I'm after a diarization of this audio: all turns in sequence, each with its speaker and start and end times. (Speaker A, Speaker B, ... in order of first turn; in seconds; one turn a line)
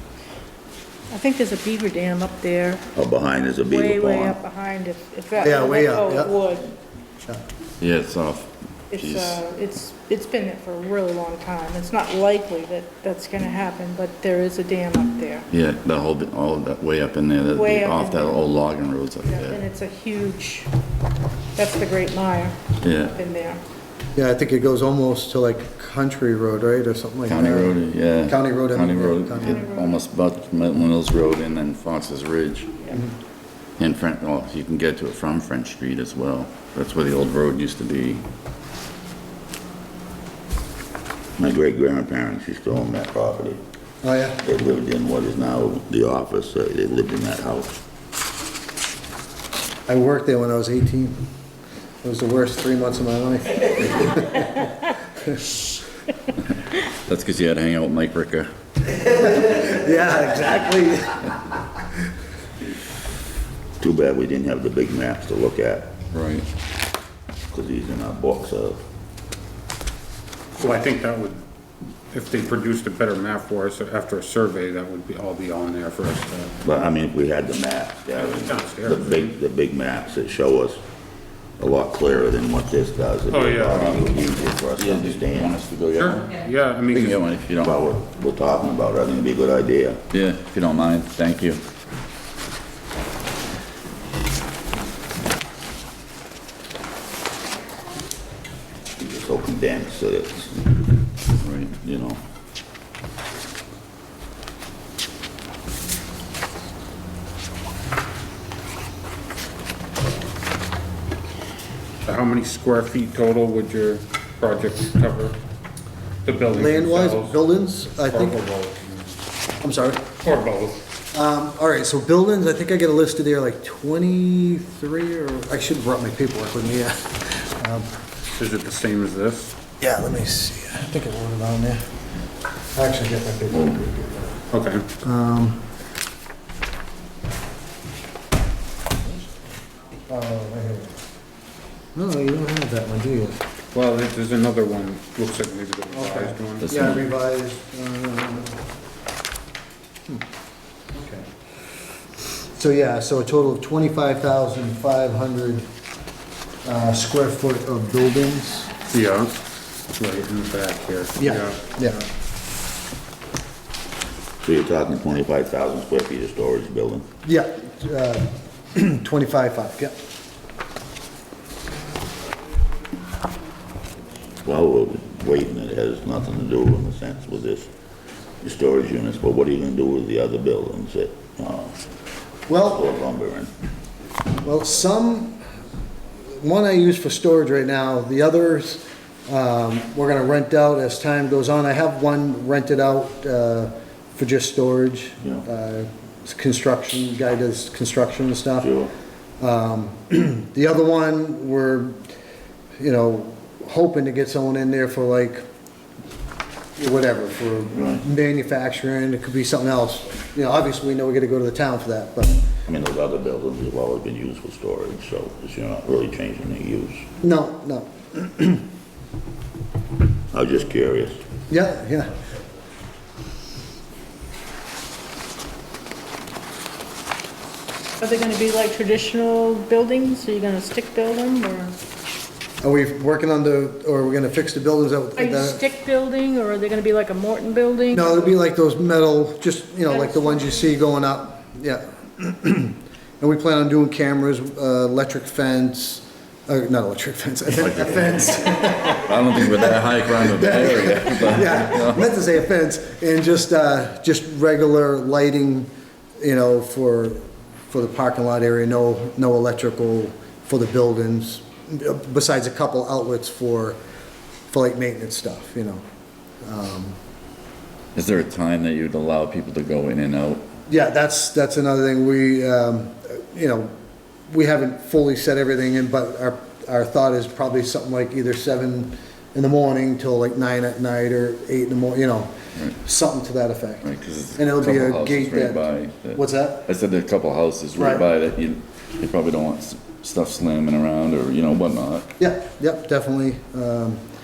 Speaker A: 1.1-2.9
Speaker B: 3.0-4.4
Speaker A: 3.6-6.7
Speaker C: 5.4-6.4
Speaker D: 7.8-9.4
Speaker A: 8.9-15.5
Speaker D: 15.5-19.6
Speaker A: 17.5-18.4
Speaker A: 19.3-20.7
Speaker A: 21.6-23.6
Speaker D: 22.8-23.2
Speaker C: 24.1-29.6
Speaker D: 27.3-32.8
Speaker A: 29.4-30.0
Speaker D: 33.8-38.2
Speaker B: 41.4-43.6
Speaker C: 44.0-44.4
Speaker B: 44.4-47.8
Speaker C: 49.9-51.2
Speaker C: 52.0-54.7
Speaker D: 57.1-58.5
Speaker C: 59.1-61.4
Speaker B: 63.8-66.0
Speaker D: 66.1-66.5
Speaker B: 67.5-68.8
Speaker E: 70.6-71.4
Speaker E: 72.1-76.5
Speaker B: 76.6-80.8
Speaker E: 78.1-79.3
Speaker B: 81.6-85.6
Speaker E: 83.3-83.9
Speaker D: 83.7-84.0
Speaker D: 84.8-86.4
Speaker E: 86.0-87.3
Speaker D: 86.9-87.8
Speaker B: 87.6-90.0
Speaker D: 90.1-91.6
Speaker B: 99.0-100.8
Speaker D: 101.4-101.8
Speaker B: 101.8-102.2
Speaker E: 112.0-115.4
Speaker E: 116.2-117.4
Speaker C: 116.5-118.4
Speaker E: 117.9-119.2
Speaker C: 119.6-120.0
Speaker E: 120.2-120.8
Speaker C: 121.1-127.9
Speaker E: 128.3-129.6
Speaker C: 129.8-131.8
Speaker C: 132.8-134.3
Speaker D: 133.5-133.8
Speaker E: 134.5-134.8
Speaker C: 135.0-135.6
Speaker C: 140.1-141.0
Speaker C: 141.9-143.4
Speaker E: 143.7-146.8
Speaker C: 145.9-148.6
Speaker D: 146.6-147.0
Speaker C: 150.9-151.3
Speaker C: 152.6-155.7
Speaker C: 156.7-158.7
Speaker E: 158.9-159.3
Speaker E: 160.0-161.6
Speaker C: 161.2-162.1
Speaker B: 164.4-167.1
Speaker C: 167.2-169.9
Speaker B: 174.4-177.7
Speaker B: 178.4-181.8
Speaker C: 182.5-182.9
Speaker B: 182.7-183.5
Speaker C: 184.4-185.4
Speaker C: 186.4-198.7
Speaker B: 198.6-198.9
Speaker C: 199.4-202.0
Speaker C: 202.8-205.4
Speaker C: 206.8-212.4
Speaker B: 207.7-208.0
Speaker B: 212.7-217.1
Speaker C: 217.2-218.7
Speaker B: 220.3-221.2
Speaker C: 221.5-222.1
Speaker A: 228.0-231.7
Speaker C: 232.6-235.6
Speaker A: 235.2-238.3
Speaker C: 237.9-263.8
Speaker A: 239.9-240.7
Speaker D: 247.6-252.0
Speaker C: 264.5-265.8
Speaker C: 266.4-267.0
Speaker D: 267.9-270.4
Speaker C: 270.7-273.7
Speaker C: 274.3-285.6
Speaker D: 283.8-292.1
Speaker C: 286.1-286.7
Speaker C: 287.8-288.1
Speaker C: 292.2-294.0